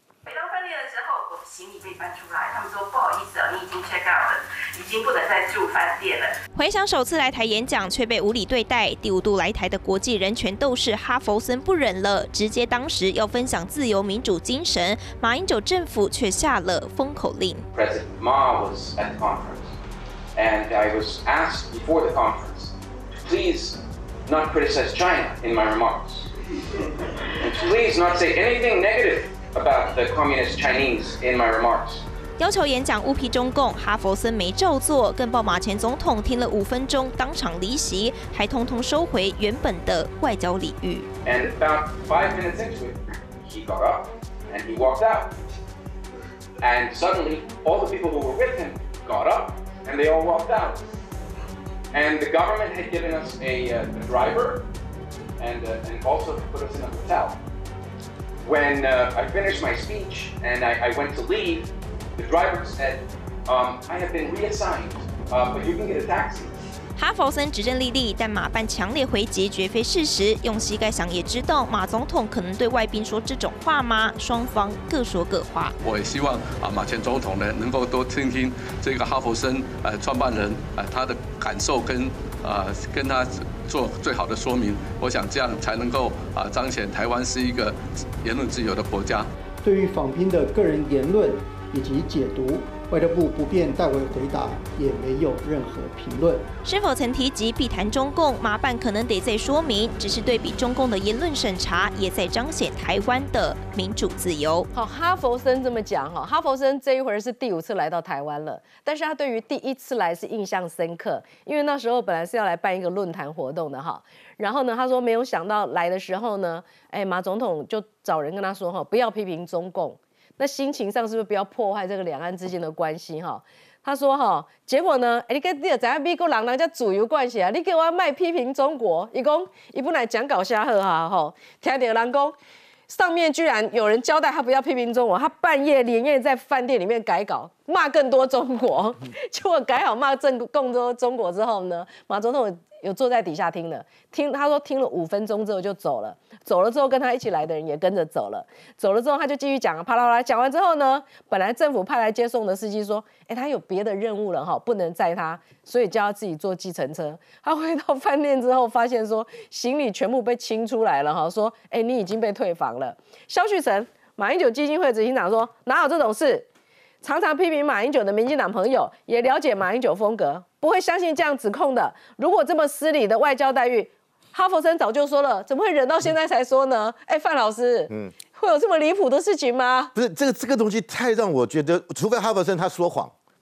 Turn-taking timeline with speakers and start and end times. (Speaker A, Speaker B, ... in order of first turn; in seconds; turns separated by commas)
Speaker A: 0.3-6.3, Speaker B: 6.5-17.6, Speaker C: 17.7-19.7, Speaker C: 20.4-22.7, Speaker C: 23.2-26.3, Speaker C: 27.4-32.0, Speaker B: 32.4-41.1, Speaker C: 41.2-45.3, Speaker C: 46.6-50.8, Speaker C: 51.9-54.7, Speaker C: 55.4-57.4, Speaker C: 58.4-66.5, Speaker B: 67.0-75.8, Speaker D: 75.8-89.3, Speaker E: 89.6-96.5, Speaker B: 96.7-104.7, Speaker F: 104.7-132.3, Speaker F: 132.9-166.5, Speaker F: 167.0-179.9, Speaker G: 179.9-183.1